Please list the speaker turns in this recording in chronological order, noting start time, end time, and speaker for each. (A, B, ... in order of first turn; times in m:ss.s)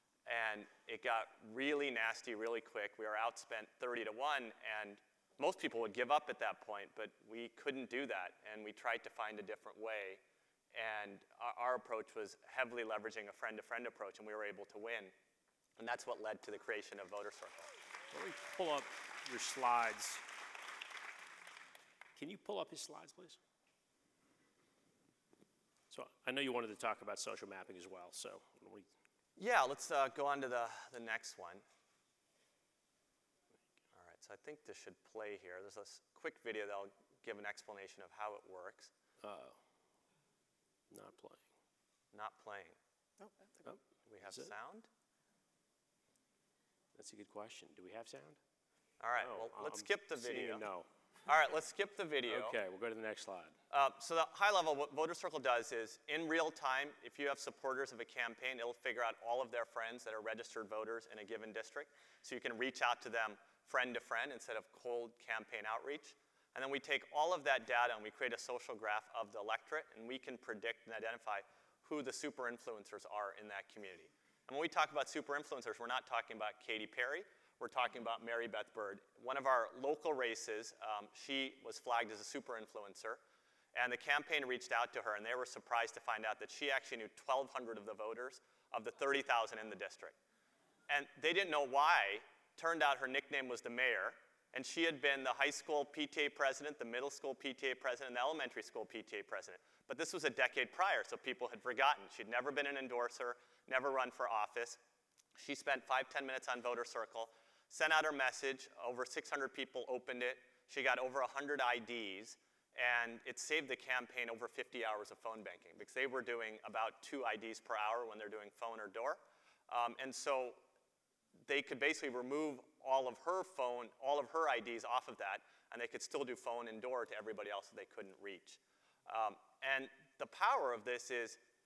0:00.2-0:10.2 A
0:10.7-0:15.1 A
0:15.8-0:17.7 A
0:18.1-0:20.2 B
0:22.2-0:23.4 B
0:25.9-0:28.9 B
0:29.4-0:31.6 A
0:33.9-0:38.9 A
0:39.2-0:39.6 B
0:40.9-0:41.4 B
0:42.1-0:42.8 A
0:43.6-0:44.5 B
0:44.1-0:44.9 A
0:46.9-0:48.4 B
0:49.0-0:50.6 A
0:49.2-0:50.9 B
0:51.3-0:52.6 A
0:52.3-0:53.5 B
0:53.7-1:23.2 A
1:23.7-1:30.2 A
1:30.9-1:44.8 A
1:45.4-2:00.6 A
2:01.4-2:11.4 A